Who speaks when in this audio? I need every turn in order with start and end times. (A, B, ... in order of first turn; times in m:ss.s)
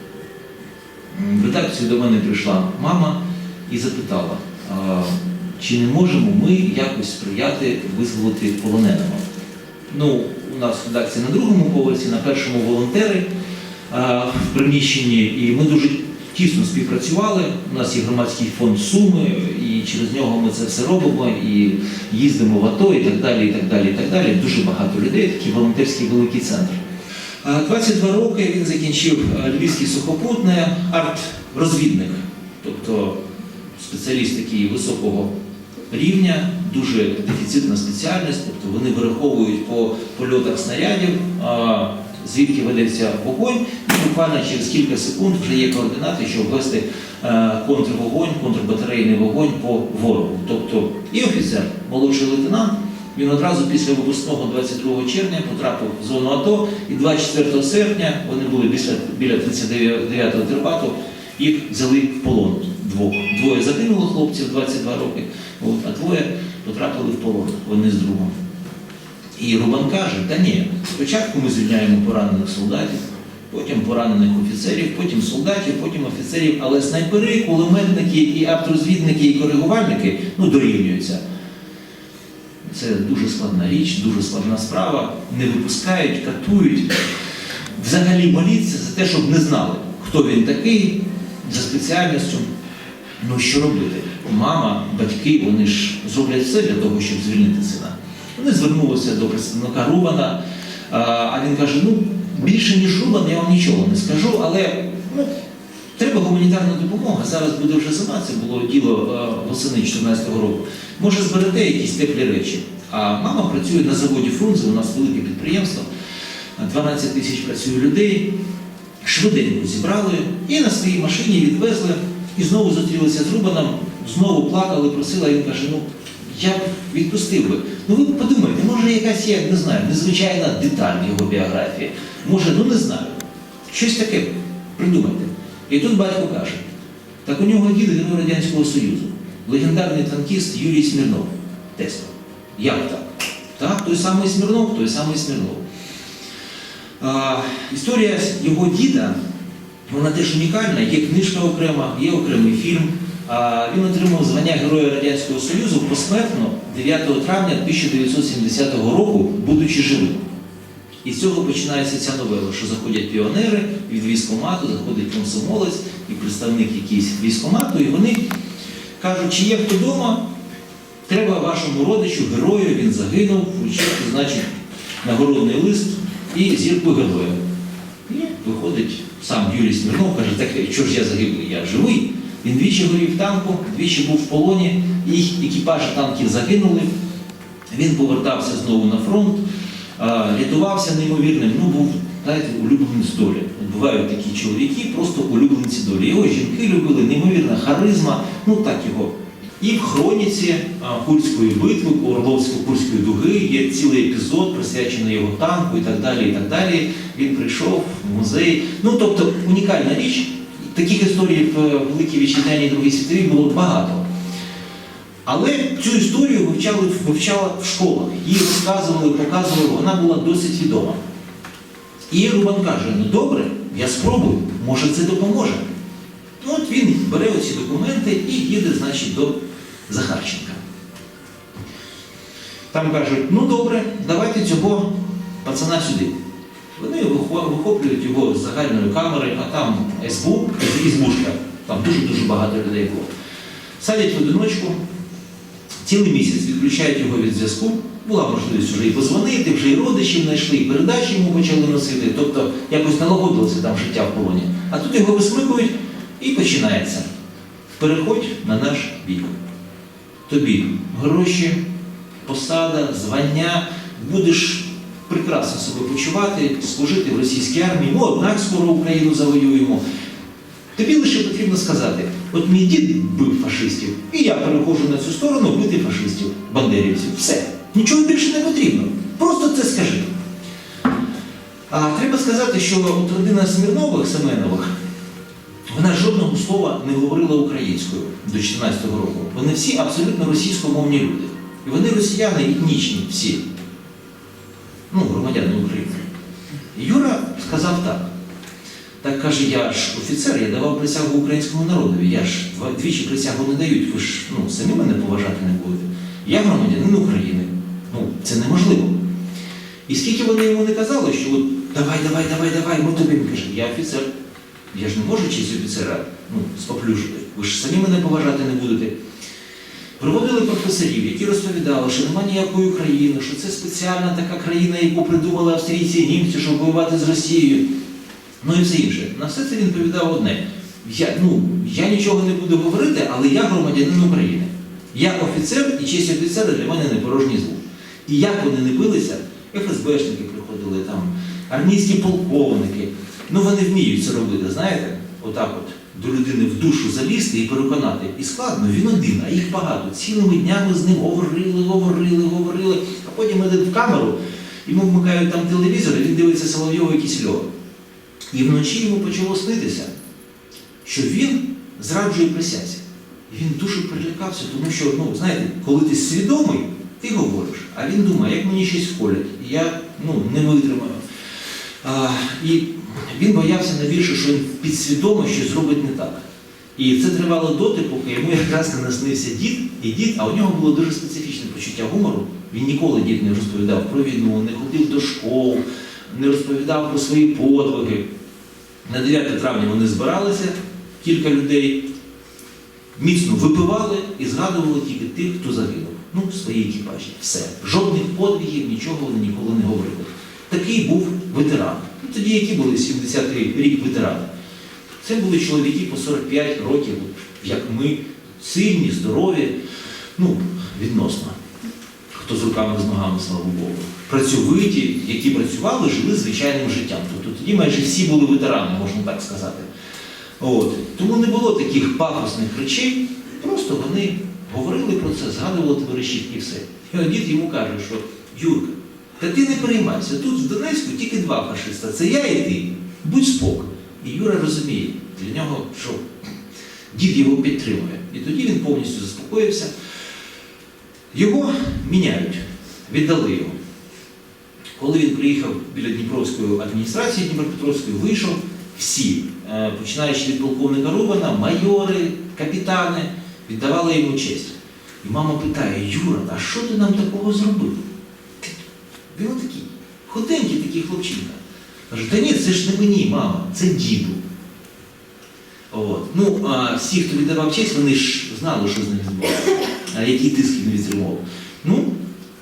0:01.1-0:09.2 A
0:09.9-0:13.3 A
0:13.9-0:26.8 A
0:27.4-0:33.2 A
0:33.8-0:35.3 A
0:35.9-1:08.4 A
1:09.4-1:21.2 A
1:22.6-1:27.0 A
1:27.7-1:32.5 A
1:33.2-1:45.3 A
1:46.0-1:55.9 A
1:56.6-1:58.4 A
1:59.0-2:16.7 A
2:17.2-2:25.6 A
2:27.0-2:29.2 A
2:29.9-2:40.3 A
2:41.0-2:48.3 A
2:49.0-2:50.3 A
2:51.1-2:54.5 A
2:55.0-2:57.4 A
2:58.1-3:06.9 A
3:07.7-3:09.4 A
3:10.0-3:34.1 A
3:35.3-3:41.0 A
3:42.1-3:45.7 A
3:46.4-3:50.6 A
3:52.7-3:56.2 A
3:56.8-4:03.1 A
4:03.8-4:04.8 A
4:05.8-4:17.1 A
4:17.8-4:19.4 A
4:20.3-4:21.6 A
4:22.2-4:29.8 A
4:30.8-4:40.1 A
4:41.7-4:44.7 A
4:45.7-4:53.4 A
4:54.9-4:56.1 A
4:56.7-4:58.1 A
4:59.0-5:09.1 A
5:09.9-5:14.1 A
5:14.7-5:19.0 A
5:20.0-5:27.7 A
5:28.4-5:57.5 A
5:58.3-5:59.9 A
6:00.8-6:11.0 A
6:11.8-6:16.2 A
6:16.8-6:28.1 A
6:28.8-6:31.9 A
6:33.0-6:44.3 A
6:45.0-6:49.6 A
6:50.2-6:51.4 A
6:52.2-6:59.7 A
7:00.4-7:16.0 A
7:16.9-7:19.7 A
7:21.1-7:23.6 A
7:24.8-7:37.8 A
7:39.1-7:44.2 A
7:45.7-7:52.0 A